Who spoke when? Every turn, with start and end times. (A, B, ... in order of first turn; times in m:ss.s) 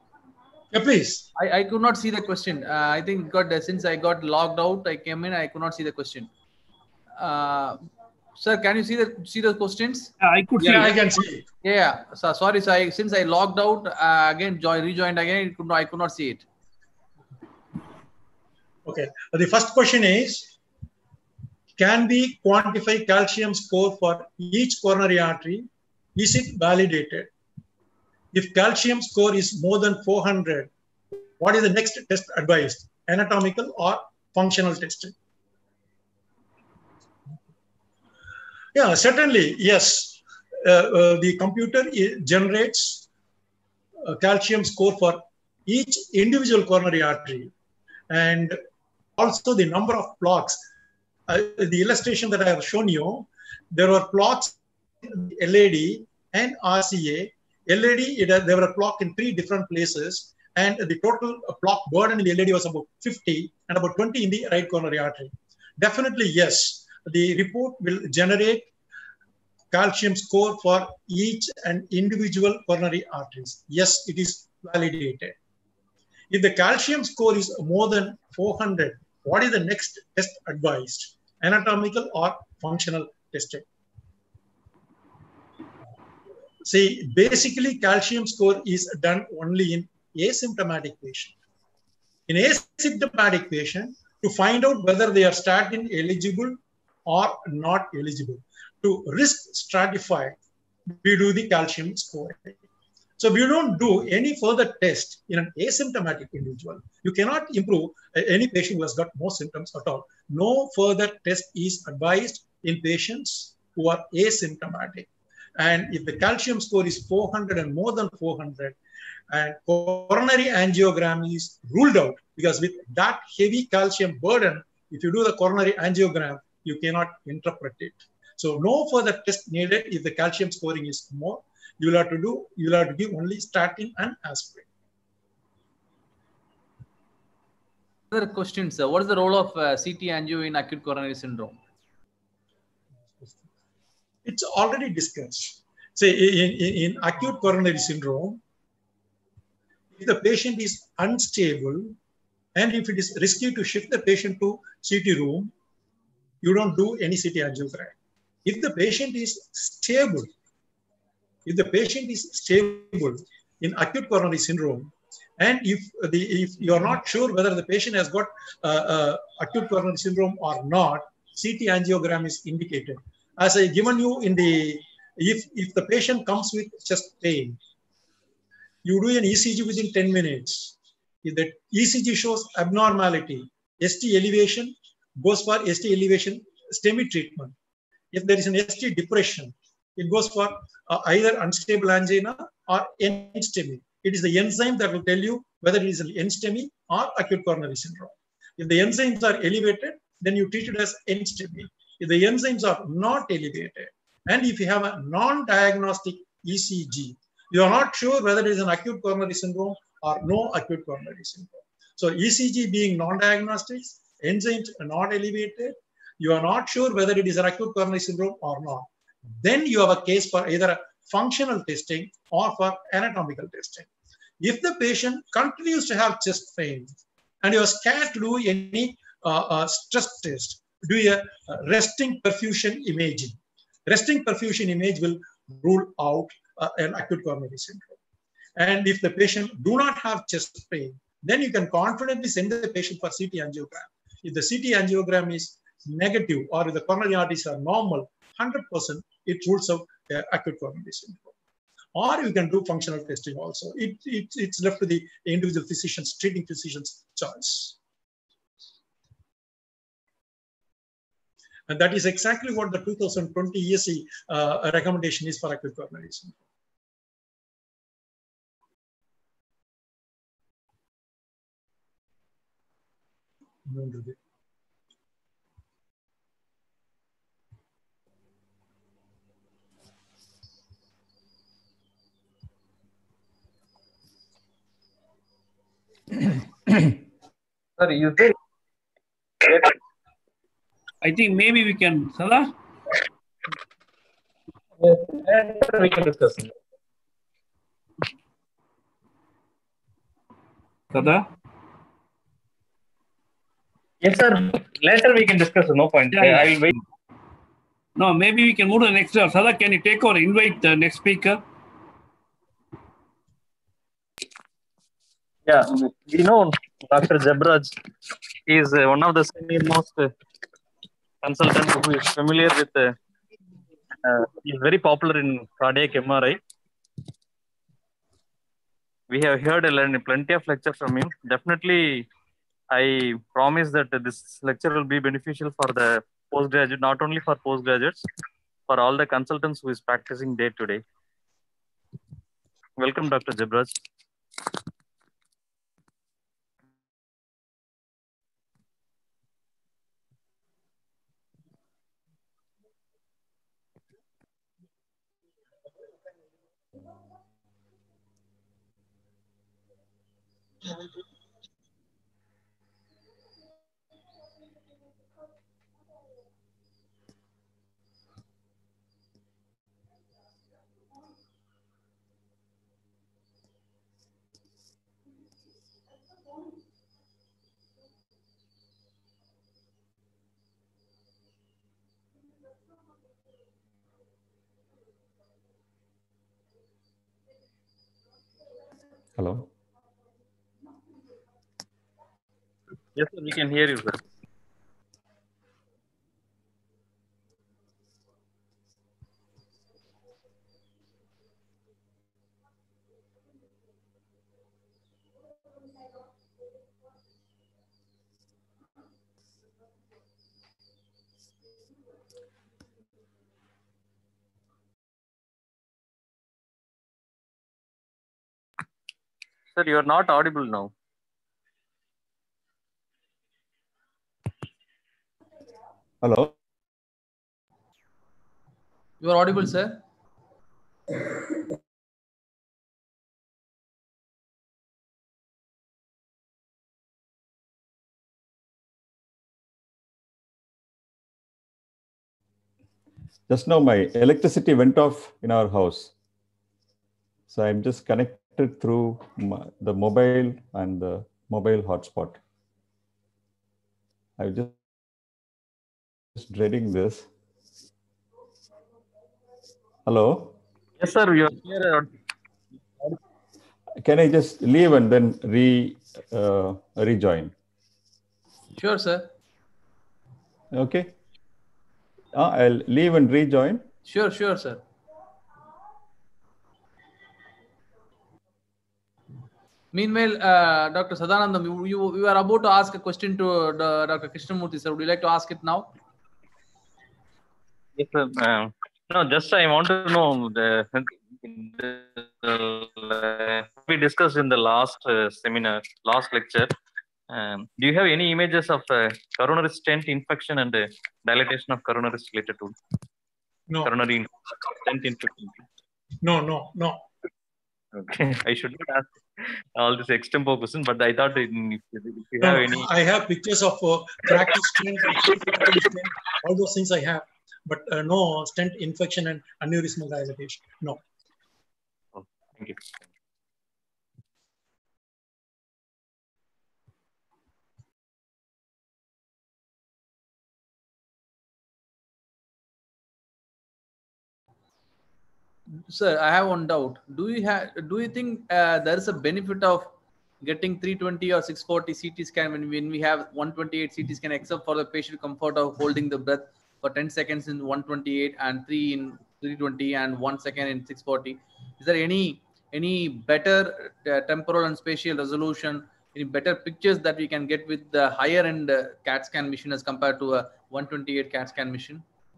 0:00.7-0:01.2 A
0:01.4-0:06.3 B
0:07.2-0:07.8 B
0:08.4-0:10.1 B
0:10.2-0:11.0 C
0:10.6-0:11.4 A
0:11.6-0:16.4 B
0:18.8-0:20.5 A
0:21.8-0:27.3 A
0:28.3-0:30.7 A
0:31.4-0:35.1 A
0:38.7-0:43.0 A
0:44.0-0:47.5 A
0:48.1-0:48.6 A
0:49.2-0:50.6 A
0:51.3-1:08.7 A
1:09.7-1:15.4 A
1:16.3-1:23.6 A
1:26.6-1:31.3 A
1:32.3-1:40.4 A
1:41.0-1:42.6 A
1:43.2-1:58.8 A
1:59.3-2:14.7 A
2:18.1-2:21.6 B
2:24.2-2:28.4 A
2:30.0-2:32.0 A
2:32.5-2:35.5 A
2:36.4-2:40.3 A
2:41.4-2:57.6 A
2:58.8-3:07.5 A
3:08.1-3:38.9 A
3:39.4-3:43.9 A
3:44.4-3:58.0 A
3:58.6-4:11.3 A
4:11.9-4:17.8 A
4:21.7-4:26.4 A
4:33.6-4:34.2 A
4:47.8-4:48.3 D
4:49.4-4:49.7 D
4:51.0-4:52.5 C
4:54.8-4:56.5 D
5:00.9-5:01.3 C
5:04.0-5:06.7 D
5:06.1-5:06.5 C
5:08.0-5:11.4 C
5:15.4-5:17.7 D
5:18.4-5:20.1 D
5:21.2-5:22.9 D
5:24.0-5:26.4 D
5:29.1-5:32.1 D
5:32.7-5:38.0 D
5:38.7-5:40.8 D
5:42.8-5:43.8 D
6:29.2-6:29.5 E
6:32.9-6:34.0 D
6:59.5-7:00.7 D
7:06.0-7:06.3 E
7:09.0-7:09.8 B
7:23.3-7:25.9 E
7:27.3-7:32.2 E
7:34.2-7:34.6 E
7:36.1-7:37.1 E
7:39.8-7:40.4 E
7:40.8-7:41.9 D
7:43.8-7:47.3 E
7:48.6-7:49.1 B
7:50.5-7:50.9 E
7:52.1-7:53.6 E
7:53.8-7:54.6 B
7:59.7-8:05.7 B
8:07.8-8:16.5 D
8:17.1-8:22.5 D
8:23.6-8:25.4 D
8:26.0-8:26.8 A
8:27.8-8:32.7 D
8:32.2-8:40.8 A
8:42.0-8:42.6 D
8:55.7-9:21.8 B